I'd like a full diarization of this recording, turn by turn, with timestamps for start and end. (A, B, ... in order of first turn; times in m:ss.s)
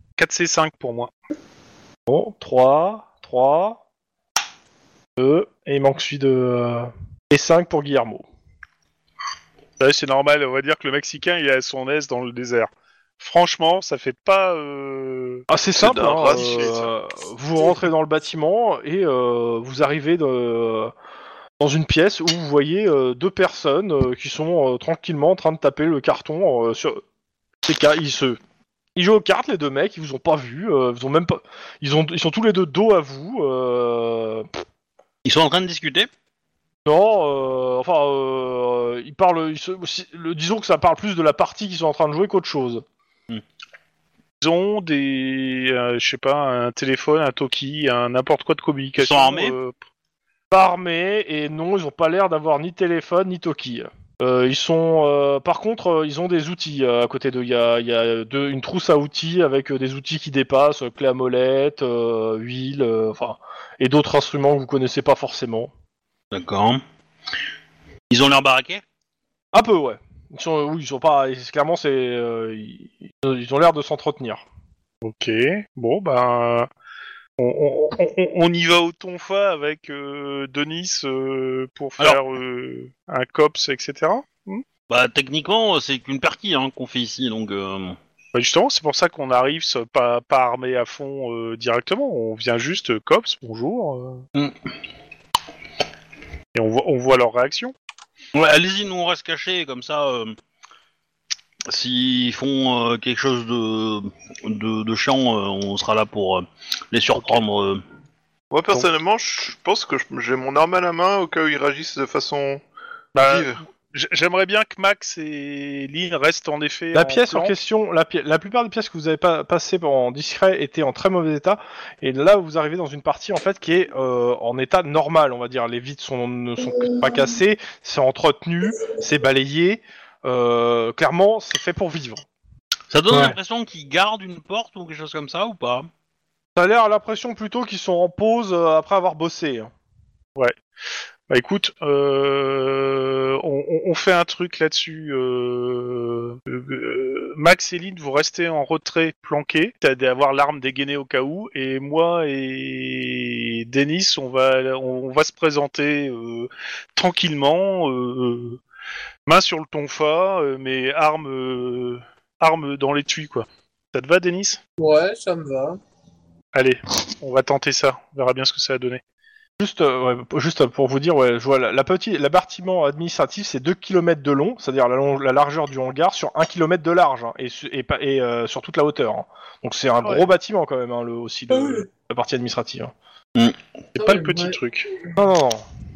0:00.2-0:01.1 A
0:02.1-0:03.8 B
0:05.2-0:08.3 B
0:09.8-0:16.7 A
0:15.5-0:20.9 B
0:15.8-0:16.9 C
0:21.6-0:27.0 B
0:27.6-0:28.4 B
0:29.0-0:34.5 B
0:35.2-0:36.1 D
0:36.9-0:42.8 B
0:44.4-0:49.8 A
0:49.0-0:49.6 D
0:50.5-1:05.7 B
1:06.3-1:06.8 D
1:08.1-1:08.8 D
1:09.5-1:14.4 B
1:15.0-1:16.7 A
1:17.4-1:24.6 A
1:24.9-1:28.0 D
1:28.3-1:34.2 A
1:36.6-1:37.7 A
1:38.3-1:40.4 D
1:41.7-1:47.8 D
1:48.5-1:52.6 C
1:53.2-1:57.5 A
1:53.2-1:53.6 C
1:56.9-2:12.2 B
2:12.9-2:15.9 D
2:13.1-2:13.4 B
2:16.6-2:19.7 B
2:21.3-2:38.6 A
2:39.3-2:44.6 A
2:44.8-2:45.8 E
2:46.5-2:49.0 A
2:49.6-3:02.9 B
3:00.0-3:00.3 A
3:01.6-3:01.8 E
3:04.0-3:04.9 A
3:04.0-3:04.6 E
3:05.2-3:05.6 B